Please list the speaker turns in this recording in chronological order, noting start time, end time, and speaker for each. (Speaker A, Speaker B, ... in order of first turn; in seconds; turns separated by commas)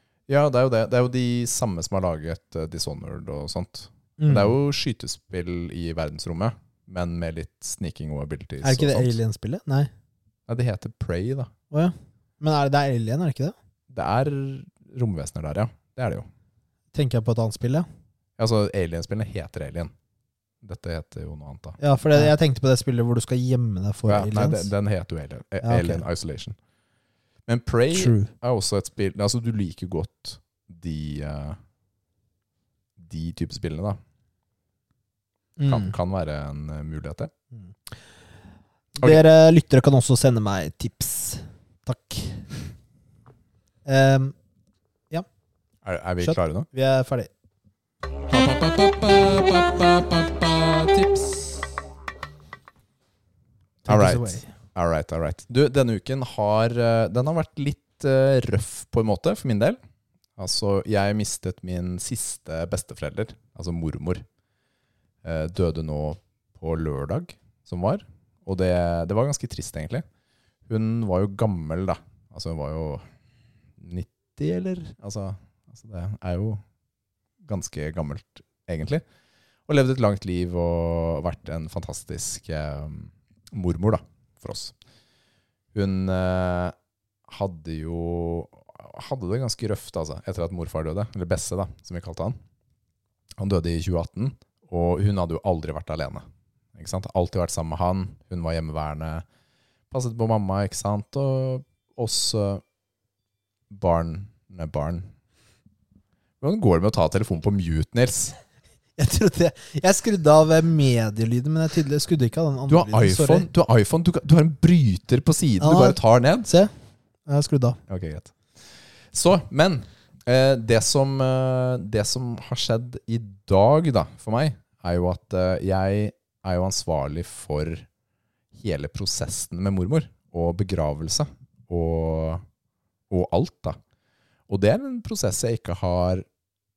Speaker A: 0.3-9.1, Speaker B: 4.2-4.5, Speaker B: 8.6-9.9, Speaker A: 10.5-11.5, Speaker B: 11.7-13.5, Speaker A: 13.9-16.3, Speaker B: 16.9-17.9, Speaker A: 18.4-19.9, Speaker A: 20.6-21.8, Speaker B: 21.8-24.7, Speaker A: 24.1-26.6, Speaker B: 25.6-26.0, Speaker A: 27.5-31.6, Speaker B: 27.9-28.3, Speaker A: 33.0-34.0, Speaker B: 35.6-35.9, Speaker A: 35.6-37.3, Speaker B: 39.0-42.4, Speaker B: 43.9-44.3, Speaker A: 45.8-46.7, Speaker B: 46.2-47.3, Speaker A: 48.3-51.5, Speaker B: 53.9-54.5, Speaker A: 53.9-59.8, Speaker A: 60.4-64.2, Speaker A: 65.2-70.0, Speaker A: 70.7-73.1, Speaker A: 73.8-76.6, Speaker A: 77.4-79.0, Speaker A: 79.7-84.7, Speaker A: 85.7-86.7, Speaker A: 87.3-92.4, Speaker A: 93.4-99.2, Speaker A: 99.9-102.6, Speaker A: 103.7-105.1, Speaker A: 106.4-108.3, Speaker B: 109.0-113.5, Speaker A: 112.7-116.5, Speaker B: 115.6-116.7, Speaker B: 117.3-117.8, Speaker A: 117.9-118.3, Speaker A: 119.1-127.8, Speaker A: 128.5-132.4, Speaker A: 133.1-133.8, Speaker A: 134.5-136.2